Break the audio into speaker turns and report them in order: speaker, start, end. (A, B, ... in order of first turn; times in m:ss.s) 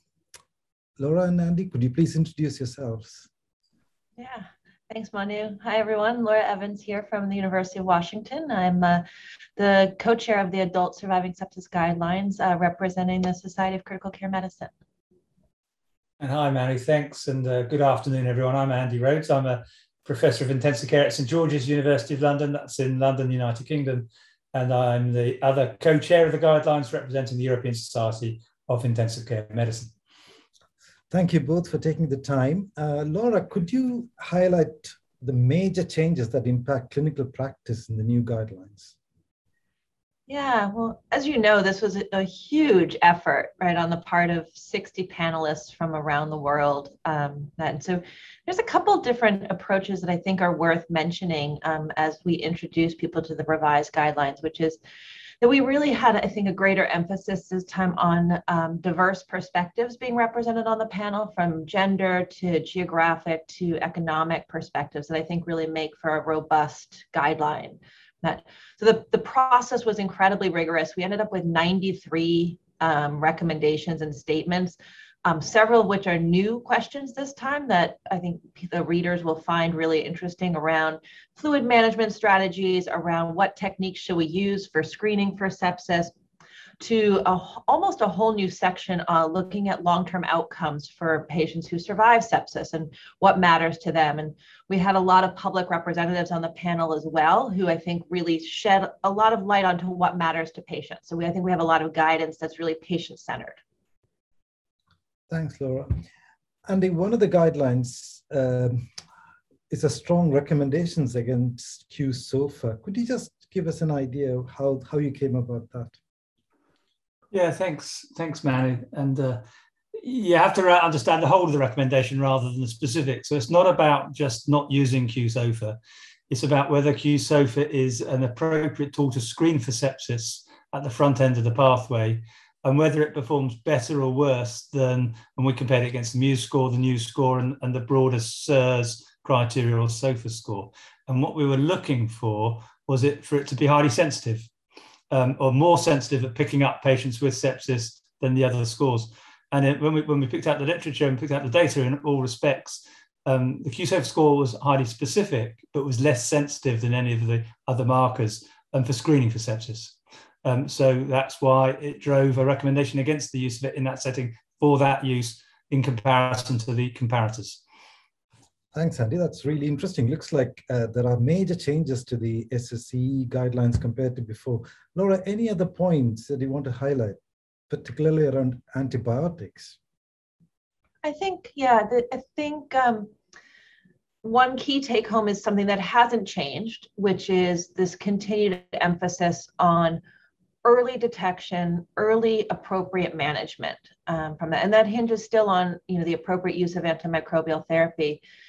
0:01.0-0:03.3 A
0:04.2-0:09.0 B
0:09.6-0:14.7 B
0:16.2-0:29.9 C
0:31.1-0:38.9 A
0:40.3-0:54.8 B
0:55.4-1:26.1 B
1:26.8-1:43.6 B
1:45.3-1:45.9 A
1:46.7-1:48.9 A
1:49.7-1:55.9 A
1:57.3-1:59.4 C
2:00.0-2:05.8 C
2:06.3-2:24.5 C
2:25.1-2:47.6 C
2:48.7-2:57.2 A
2:57.7-2:59.8 A
3:01.0-3:03.1 B
3:04.2-3:10.0 B
3:10.6-3:18.2 B